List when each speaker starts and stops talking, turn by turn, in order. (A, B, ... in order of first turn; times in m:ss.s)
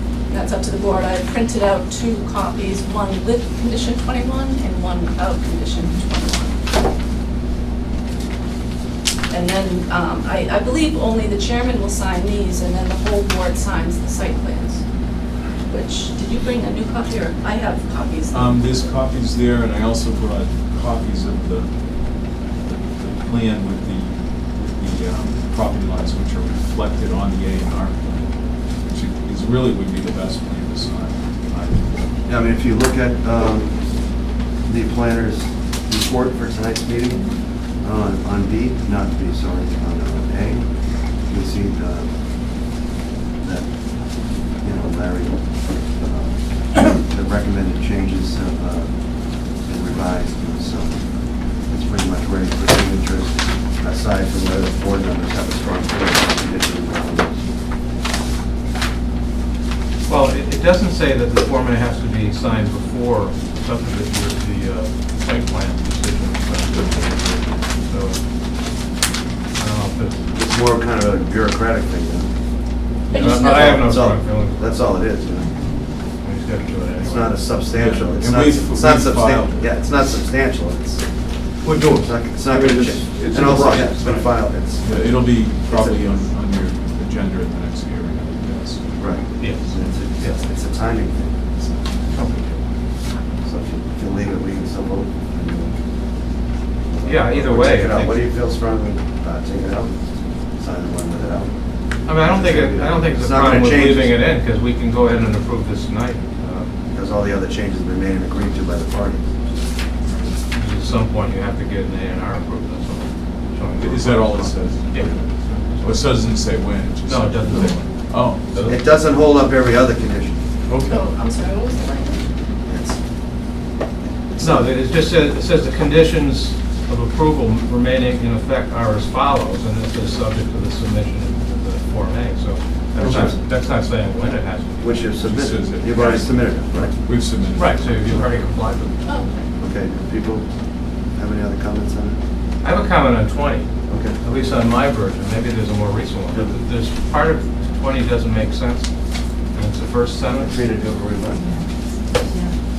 0:00.3-0:06.6 A
0:09.3-0:14.8 A
0:15.7-0:18.6 A
0:18.3-0:28.3 B
0:28.9-0:32.0 B
0:32.3-0:33.8 C
0:34.6-0:42.1 C
0:43.4-0:57.4 C
1:00.1-1:08.2 D
1:09.6-1:10.2 D
1:10.3-1:12.3 C
1:13.1-1:14.0 A
1:13.1-1:14.9 D
1:13.7-1:15.5 C
1:16.2-1:17.4 D
1:17.0-1:21.0 C
1:17.6-1:19.7 B
1:21.8-1:26.2 C
1:22.5-1:23.9 B
1:23.3-1:24.3 D
1:24.8-1:29.1 B
1:29.0-1:32.0 C
1:29.4-1:30.4 D
1:32.1-1:32.6 D
1:33.4-1:35.8 C
1:36.9-1:40.0 C
1:37.0-1:38.2 D
1:40.6-1:41.5 C
1:42.1-1:46.8 D
1:42.1-1:44.2 C
1:46.9-1:49.2 C
1:50.6-1:56.2 D
1:53.8-1:55.2 B
1:55.8-1:58.8 B
1:57.1-1:58.8 D
1:58.7-2:00.4 C
2:00.7-2:01.0 B
2:00.9-2:02.3 A
2:02.7-2:03.0 C
2:04.3-2:04.8 C
2:04.4-2:15.1 D
2:13.0-2:13.4 C
2:14.8-2:16.9 C
2:15.2-2:17.8 B
2:17.6-2:19.3 D
2:19.1-2:19.4 A
2:19.6-2:20.5 C
2:21.2-2:22.2 C
2:22.6-2:23.7 D
2:23.9-2:24.2 C
2:24.2-2:28.9 D
2:26.3-2:26.6 C
2:29.5-2:30.7 D
2:30.4-2:31.5 C